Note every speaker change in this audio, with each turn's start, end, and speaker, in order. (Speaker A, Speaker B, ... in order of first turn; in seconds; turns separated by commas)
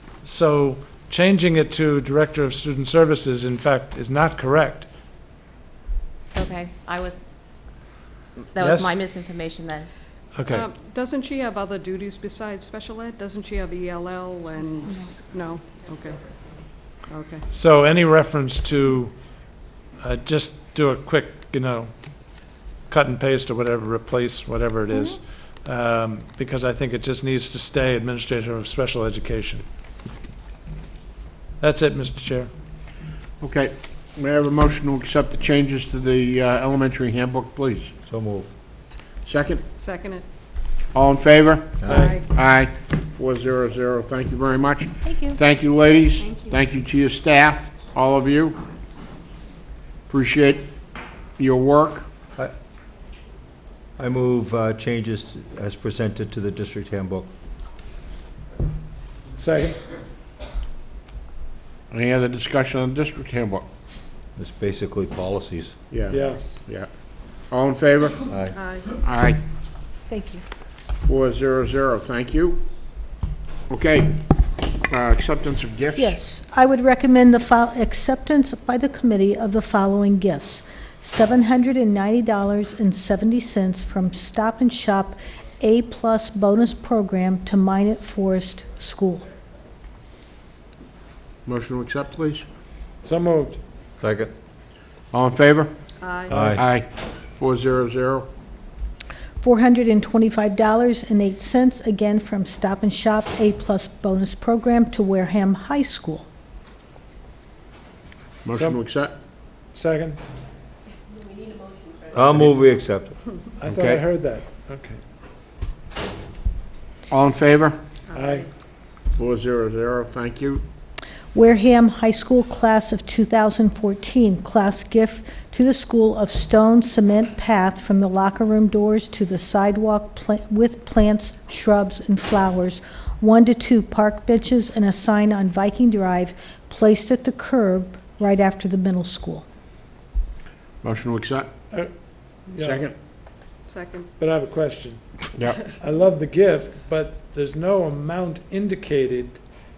Speaker A: 0.2-4.9, Speaker B: 6.3-7.2, Speaker B: 8.5-9.9, Speaker A: 8.6-9.0, Speaker A: 10.4-10.7, Speaker C: 10.5-16.2, Speaker C: 17.0-17.4, Speaker A: 17.5-19.2, Speaker A: 20.0-21.9, Speaker A: 22.9-29.6, Speaker A: 31.6-32.5, Speaker D: 33.4-37.9, Speaker E: 38.1-38.5, Speaker D: 39.2-39.7, Speaker C: 39.8-40.2, Speaker D: 40.9-48.6, Speaker E: 41.8-42.1, Speaker C: 41.9-42.3, Speaker A: 41.9-42.1, Speaker B: 45.0-45.4, Speaker D: 50.1-50.7, Speaker D: 51.4-52.1, Speaker E: 54.0-57.3, Speaker A: 59.4-59.8, Speaker D: 61.9-63.6, Speaker E: 64.4-65.8, Speaker D: 65.9-66.9, Speaker A: 66.1-66.5, Speaker D: 67.5-68.2, Speaker E: 68.3-68.6, Speaker C: 68.5-68.9, Speaker D: 69.0-69.4, Speaker F: 70.1-70.4, Speaker D: 71.0-72.7, Speaker D: 73.7-76.2, Speaker F: 76.0-89.3, Speaker D: 91.5-92.5, Speaker A: 93.0-93.6, Speaker E: 94.0-94.3, Speaker D: 95.1-95.7, Speaker C: 96.0-96.6, Speaker E: 96.3-96.6, Speaker D: 96.5-98.3, Speaker F: 99.4-106.3, Speaker D: 108.4-109.2, Speaker A: 109.7-110.2, Speaker E: 112.1-113.2, Speaker A: 113.6-115.0, Speaker D: 113.6-114.0, Speaker D: 117.1-117.8, Speaker C: 118.1-118.5, Speaker A: 118.1-118.5, Speaker D: 119.1-120.6, Speaker F: 121.3-139.4, Speaker D: 140.8-141.5, Speaker A: 142.5-142.8, Speaker D: 142.6-142.9, Speaker C: 143.7-144.1, Speaker A: 144.2-149.4, Speaker D: 145.4-145.6